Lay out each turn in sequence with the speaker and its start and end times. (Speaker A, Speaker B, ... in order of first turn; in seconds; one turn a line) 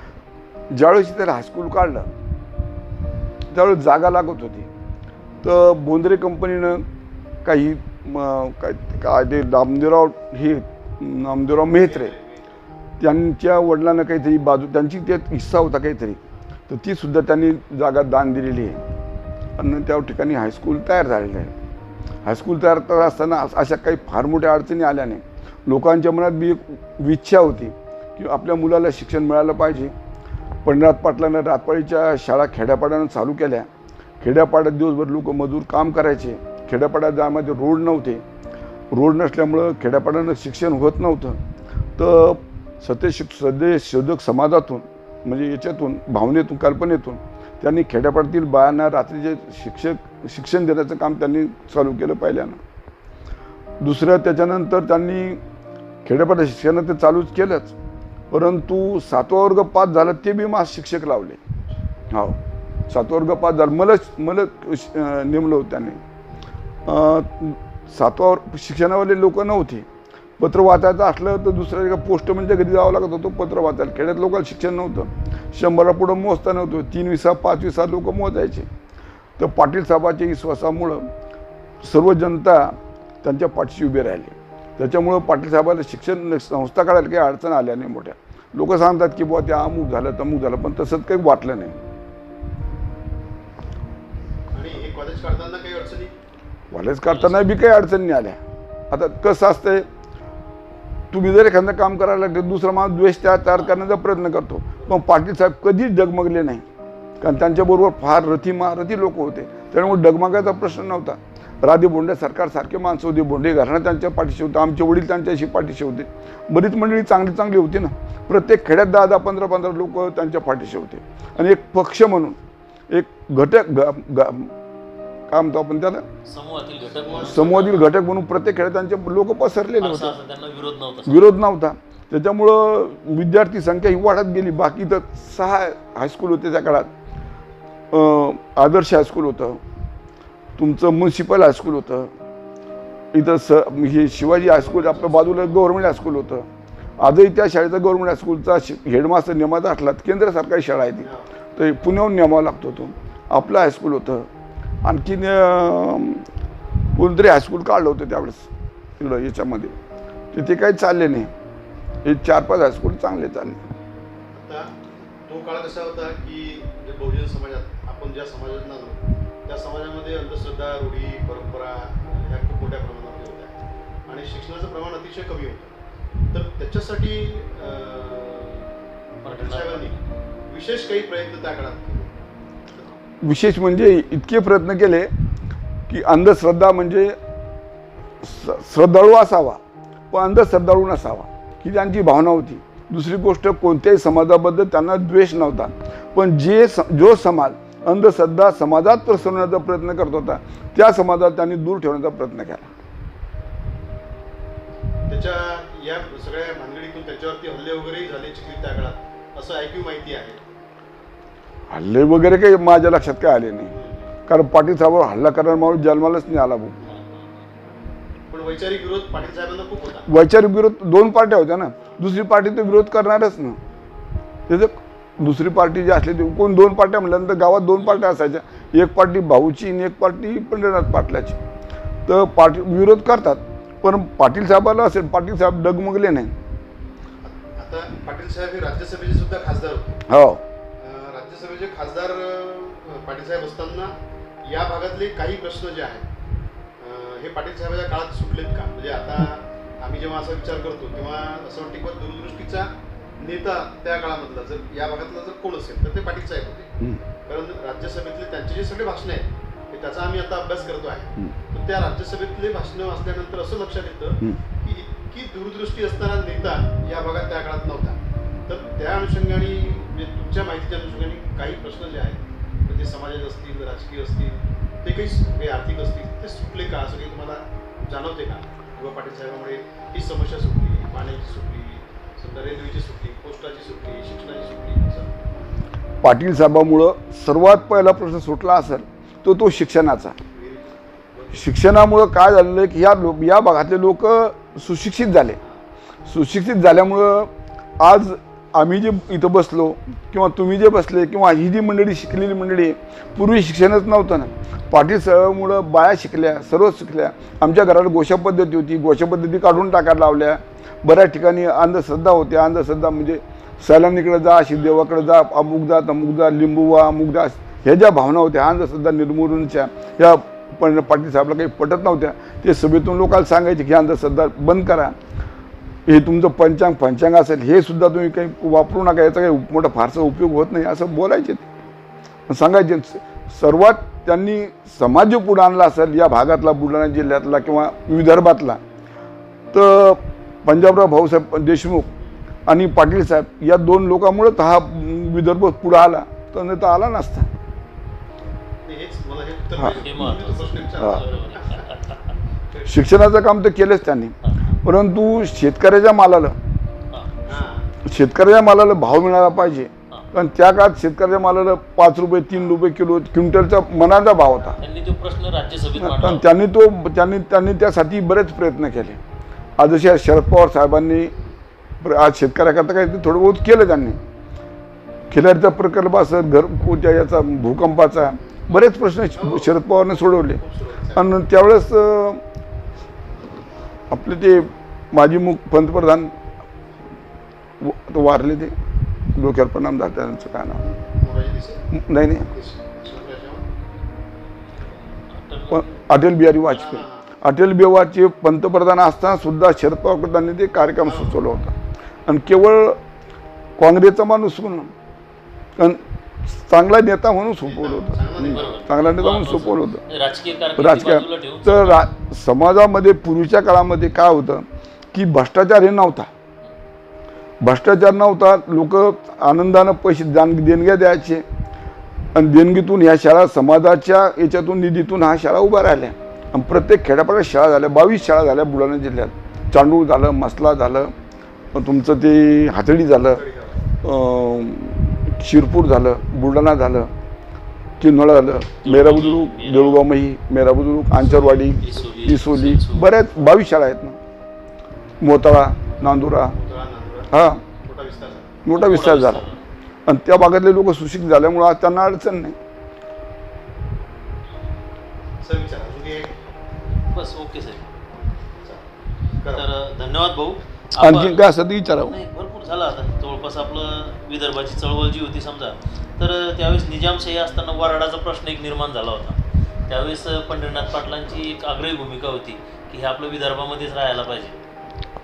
Speaker A: 0.7-2.1
Speaker A: 3.5-4.7
Speaker A: 5.4-6.8
Speaker A: 7.4-12.1
Speaker B: 11.6-12.7
Speaker A: 13.0-18.8
Speaker A: 19.6-21.5
Speaker A: 22.2-29.9
Speaker A: 30.6-33.7
Speaker A: 34.2-38.2
Speaker A: 38.9-41.4
Speaker A: 42.0-52.6
Speaker A: 53.8-55.4
Speaker A: 56.0-57.8
Speaker A: 58.3-61.4
Speaker B: 61.6-61.9
Speaker A: 62.1-66.0
Speaker A: 66.9-69.9
Speaker A: 70.4-78.7
Speaker A: 79.4-81.1
Speaker A: 81.8-91.8
Speaker B: 94.5-96.1
Speaker A: 96.7-99.9
Speaker C: 97.1-97.5
Speaker A: 101.1-106.6
Speaker B: 104.8-105.1
Speaker A: 107.2-122.4
Speaker A: 122.9-124.5
Speaker A: 125.3-126.0
Speaker C: 126.2-127.8
Speaker B: 126.9-127.8
Speaker A: 127.2-130.1
Speaker C: 129.8-131.2
Speaker A: 131.1-136.9
Speaker A: 137.9-139.6
Speaker A: 140.6-142.1
Speaker A: 143.1-146.5
Speaker B: 144.2-145.8
Speaker A: 147.0-154.3
Speaker B: 151.0-151.3
Speaker A: 154.8-156.2
Speaker A: 156.9-159.7
Speaker A: 160.3-161.3
Speaker A: 162.0-163.7
Speaker B: 164.3-173.5
Speaker B: 174.1-175.7
Speaker B: 176.3-178.7
Speaker C: 179.2-180.0
Speaker B: 179.2-180.0
Speaker B: 180.5-182.1
Speaker B: 182.7-183.0
Speaker A: 183.2-185.1
Speaker A: 185.9-187.1
Speaker A: 188.2-202.7
Speaker B: 205.1-210.5
Speaker A: 211.7-213.7
Speaker B: 213.7-214.1
Speaker A: 214.3-216.8
Speaker B: 218.3-220.1
Speaker A: 220.1-223.6
Speaker A: 224.5-231.4
Speaker A: 232.1-236.3
Speaker B: 237.2-240.0
Speaker A: 240.1-240.4
Speaker B: 240.8-246.1
Speaker B: 246.8-256.7
Speaker B: 257.2-285.4
Speaker A: 286.0-290.2
Speaker B: 290.3-291.5
Speaker A: 291.3-295.4
Speaker A: 296.1-324.9
Speaker A: 325.9-331.5
Speaker A: 332.3-338.6
Speaker A: 339.5-341.9
Speaker A: 342.5-347.3
Speaker B: 348.6-351.7
Speaker A: 349.6-350.1
Speaker C: 349.7-352.1
Speaker A: 350.8-351.0
Speaker B: 352.5-352.8
Speaker A: 352.6-356.4
Speaker C: 354.2-354.5
Speaker B: 357.3-357.7
Speaker A: 357.8-364.6
Speaker C: 364.6-366.2
Speaker A: 365.8-369.0
Speaker A: 369.6-371.1
Speaker A: 371.8-374.0
Speaker A: 375.1-380.4
Speaker B: 378.2-378.6
Speaker B: 379.1-381.1
Speaker A: 380.9-382.2
Speaker A: 383.9-386.1
Speaker A: 387.6-388.5
Speaker A: 389.1-390.7
Speaker B: 390.9-391.6
Speaker A: 391.7-392.3
Speaker B: 392.3-393.4
Speaker C: 394.6-395.9
Speaker A: 395.5-401.6
Speaker B: 396.5-397.1
Speaker B: 400.8-401.2
Speaker A: 402.1-402.8
Speaker A: 403.6-404.7
Speaker A: 405.6-409.8
Speaker B: 407.4-408.7
Speaker C: 408.2-411.9
Speaker A: 410.6-416.1
Speaker A: 417.4-421.2
Speaker A: 422.1-430.9
Speaker A: 431.5-433.2
Speaker B: 433.0-433.7
Speaker A: 433.8-436.9
Speaker A: 437.8-444.0
Speaker C: 438.6-439.8
Speaker B: 440.9-442.1
Speaker C: 441.6-443.0
Speaker A: 445.0-446.4
Speaker B: 446.3-448.4
Speaker A: 447.1-447.4
Speaker A: 448.4-449.2
Speaker C: 448.5-449.4
Speaker A: 449.9-452.4
Speaker B: 455.2-456.2
Speaker C: 456.9-457.6
Speaker B: 458.4-458.6
Speaker B: 459.2-459.4
Speaker C: 459.3-461.2
Speaker A: 460.8-461.9
Speaker C: 461.8-474.4